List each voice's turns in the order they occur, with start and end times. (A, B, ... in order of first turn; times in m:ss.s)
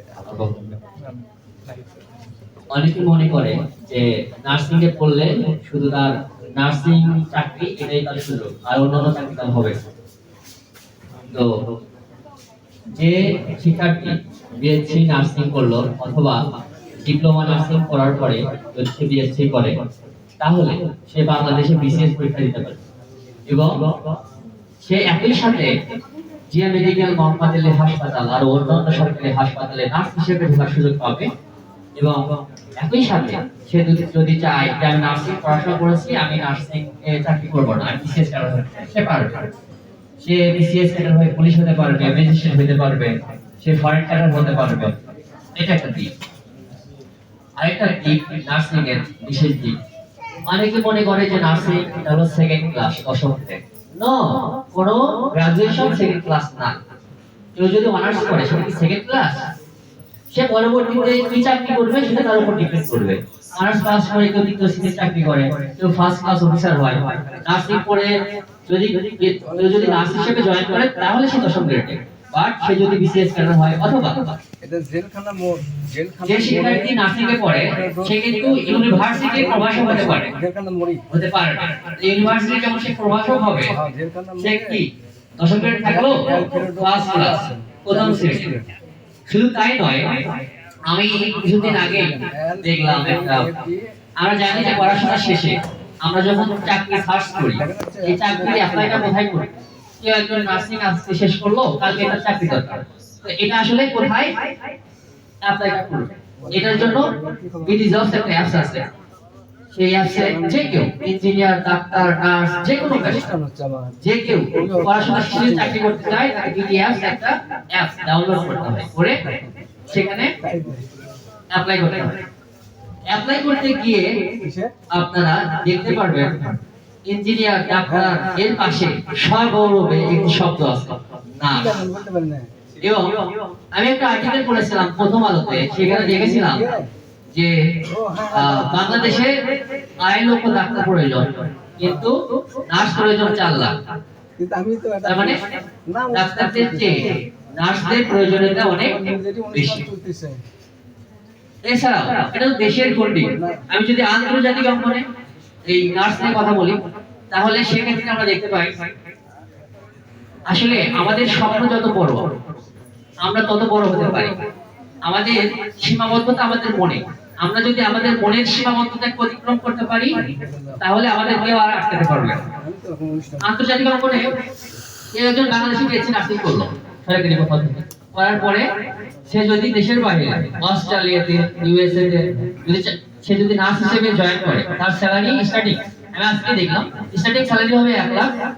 0:00.2-0:00.8 A
0:02.7-0:09.7 A
0:13.0-0:16.4 A
0:17.0-0:19.7 A
0:20.4-0:22.8 A
0:23.5-0:23.9 A
0:24.8-0:25.7 A
0:26.5-0:31.3 A
0:32.8-0:39.4 A
0:40.2-0:44.9 A
0:45.6-0:46.1 A
0:47.6-0:49.7 A
0:50.5-0:56.8 A
0:57.6-0:59.4 A
1:00.3-1:08.1 A
1:08.7-1:14.4 A
1:09.4-1:10.2 B
1:14.6-1:17.0 B
1:16.2-1:20.3 A
1:17.6-1:21.0 B
1:21.1-1:23.7 A
1:23.7-1:24.8 B
1:24.4-1:24.9 A
1:25.4-1:28.5 A
1:25.8-1:28.7 B
1:29.3-1:30.1 A
1:30.9-1:33.5 A
1:31.6-1:33.9 B
1:34.2-1:39.5 A
1:34.8-1:35.0 B
1:37.6-1:39.1 B
1:40.0-1:44.3 A
1:45.4-1:48.8 A
1:46.4-1:47.9 B
1:49.7-1:53.2 A
1:50.1-1:50.8 B
1:52.8-1:55.8 B
1:54.0-1:59.2 A
1:59.9-2:00.3 A
2:00.4-2:00.9 B
2:01.5-2:02.2 A
2:03.1-2:04.2 A
2:04.4-2:04.7 B
2:04.9-2:11.8 A
2:07.8-2:08.2 B
2:11.4-2:12.7 B
2:12.8-2:16.7 A
2:15.7-2:16.9 B
2:17.3-2:17.6 A
2:17.9-2:19.2 B
2:18.3-2:19.3 A
2:20.0-2:23.7 A
2:24.4-2:25.4 B
2:25.0-2:25.4 A
2:25.9-2:27.1 B
2:26.1-2:29.0 A
2:28.7-2:30.4 B
2:29.5-2:29.8 A
2:31.7-2:35.0 A
2:33.4-2:33.6 B
2:35.7-2:36.7 A
2:37.3-2:38.7 A
2:40.5-2:42.2 A
2:43.2-2:44.3 A
2:45.0-2:50.2 A
2:50.3-2:50.8 B
2:50.8-2:52.4 A
2:52.5-2:53.5 B
2:53.4-2:54.3 A
2:55.1-2:58.6 A
2:59.3-3:08.3 A